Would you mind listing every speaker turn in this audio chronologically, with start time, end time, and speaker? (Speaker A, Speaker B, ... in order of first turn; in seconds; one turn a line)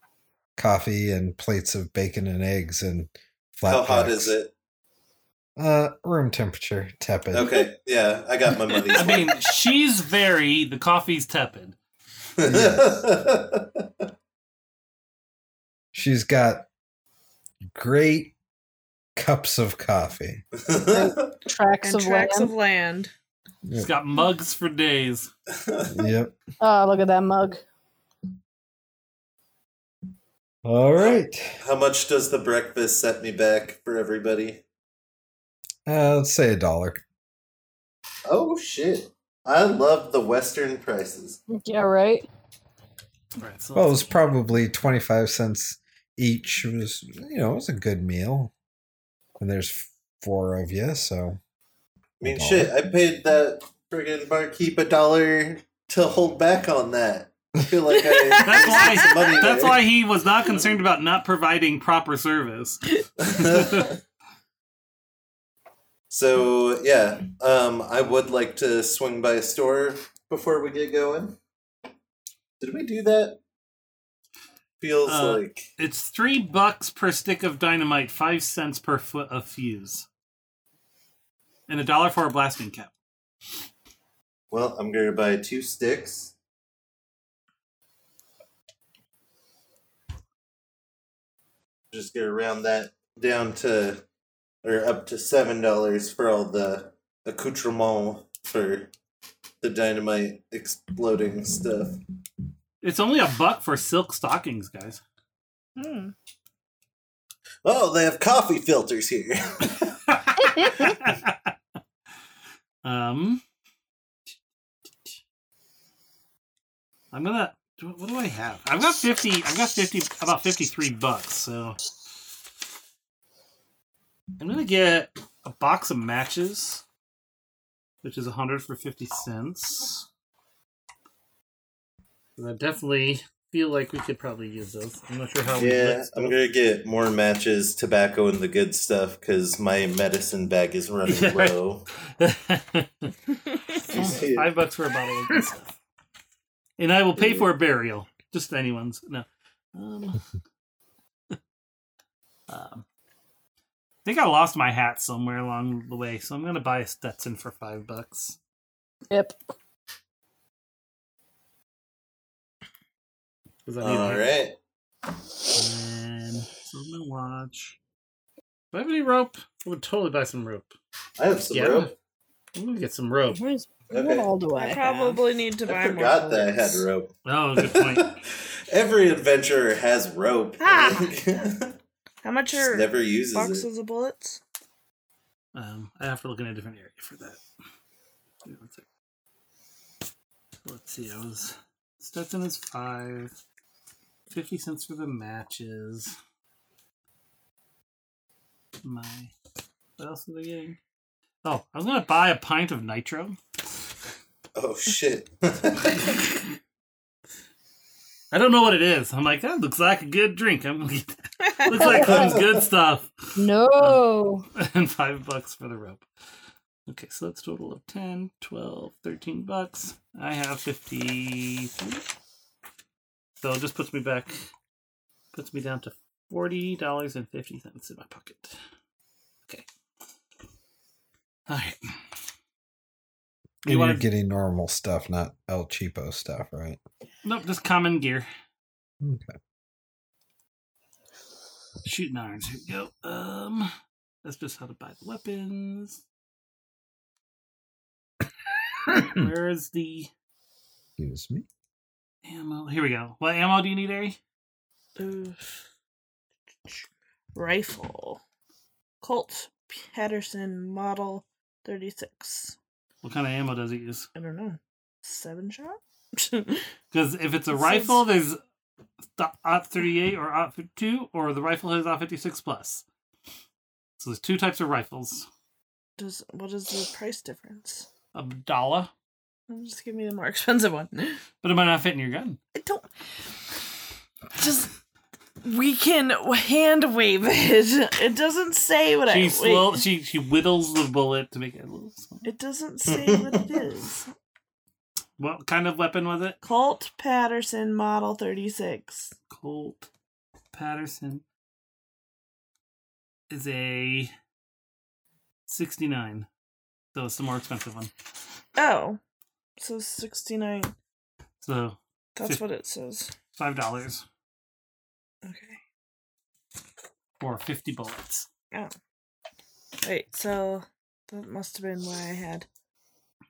Speaker A: 0.6-4.3
Speaker B: 3.7-4.5
Speaker A: 5.6-7.5
Speaker B: 7.3-9.4
Speaker C: 8.9-11.8
Speaker B: 12.4-13.8
Speaker A: 12.4-13.0
Speaker A: 15.9-16.7
Speaker A: 17.8-18.3
Speaker A: 19.2-20.4
Speaker B: 20.7-21.2
Speaker D: 20.9-22.5
Speaker E: 21.8-23.1
Speaker C: 23.8-25.3
Speaker B: 25.6-26.1
Speaker A: 25.9-26.4
Speaker D: 26.6-27.6
Speaker A: 30.6-31.5
Speaker B: 31.6-34.6
Speaker A: 35.9-37.0
Speaker B: 38.3-41.4
Speaker D: 41.5-42.3
Speaker C: 43.4-44.0
Speaker A: 43.8-48.5
Speaker A: 49.4-51.4
Speaker B: 52.2-59.8
Speaker A: 52.2-52.7
Speaker E: 58.0-59.2
Speaker C: 58.5-62.9
Speaker B: 63.2-64.0
Speaker C: 63.4-63.9
Speaker B: 66.1-71.4
Speaker B: 72.6-73.4
Speaker B: 74.8-75.6
Speaker C: 75.1-80.1
Speaker C: 81.7-82.9
Speaker B: 84.5-86.3
Speaker B: 91.9-94.0
Speaker B: 94.6-98.9
Speaker B: 99.6-102.0
Speaker C: 102.8-105.0
Speaker E: 105.8-106.1
Speaker B: 107.7-110.0
Speaker C: 110.8-111.4
Speaker C: 112.8-113.4
Speaker C: 117.1-121.8
Speaker C: 124.4-126.8
Speaker C: 128.0-130.1
Speaker C: 132.4-136.4
Speaker B: 135.6-141.9
Speaker C: 141.1-141.5
Speaker C: 142.2-143.1
Speaker C: 143.9-145.7
Speaker B: 143.9-144.5
Speaker C: 146.8-150.2
Speaker C: 152.5-152.8
Speaker C: 154.1-158.4
Speaker D: 159.1-159.4
Speaker C: 163.7-164.2
Speaker B: 163.8-164.6
Speaker C: 165.5-167.8
Speaker C: 168.7-170.7
Speaker B: 171.2-171.9
Speaker C: 171.5-171.9
Speaker C: 172.6-173.4
Speaker D: 173.3-175.2
Speaker B: 173.9-174.3
Speaker E: 174.6-176.9
Speaker B: 175.7-181.7
Speaker C: 177.3-178.1
Speaker E: 180.6-181.1
Speaker E: 182.2-184.4
Speaker B: 182.5-183.7
Speaker C: 185.6-187.4
Speaker C: 188.4-188.8
Speaker C: 190.7-193.3
Speaker C: 194.3-196.2
Speaker C: 198.8-199.3
Speaker C: 200.0-200.8
Speaker C: 201.4-203.4
Speaker B: 204.6-206.2
Speaker C: 208.3-213.1
Speaker E: 211.5-211.7
Speaker D: 211.8-212.4
Speaker B: 211.8-212.5
Speaker D: 213.4-214.5
Speaker C: 214.6-216.1
Speaker C: 216.9-222.1
Speaker C: 223.4-224.4
Speaker C: 225.3-228.6
Speaker C: 231.5-231.9
Speaker C: 233.6-234.1
Speaker A: 233.7-236.8
Speaker C: 237.2-238.3
Speaker A: 239.0-239.3
Speaker C: 241.8-243.7
Speaker C: 244.2-246.0
Speaker C: 248.9-250.1
Speaker A: 251.0-251.5
Speaker C: 252.2-254.2
Speaker E: 255.0-255.6
Speaker E: 257.4-258.2
Speaker E: 259.0-262.6
Speaker C: 263.0-264.1
Speaker E: 264.1-266.6
Speaker C: 266.9-268.4
Speaker E: 267.5-268.0
Speaker C: 269.2-272.8
Speaker C: 274.0-275.3
Speaker E: 276.0-277.9
Speaker C: 278.1-278.9
Speaker E: 279.5-281.2
Speaker C: 281.4-282.4
Speaker E: 282.6-282.9
Speaker E: 284.4-284.7
Speaker E: 285.4-289.8
Speaker C: 289.1-292.2
Speaker E: 292.2-294.1
Speaker B: 292.9-293.6
Speaker C: 295.2-296.4
Speaker E: 296.4-299.1
Speaker C: 299.3-299.9
Speaker C: 300.5-301.2
Speaker C: 303.3-304.1
Speaker C: 305.5-306.3
Speaker C: 306.9-307.9
Speaker E: 308.6-309.0
Speaker E: 309.6-310.7
Speaker C: 311.4-312.4
Speaker E: 312.2-313.1
Speaker C: 313.3-314.1
Speaker E: 315.2-315.6
Speaker C: 317.2-318.3
Speaker E: 319.8-322.5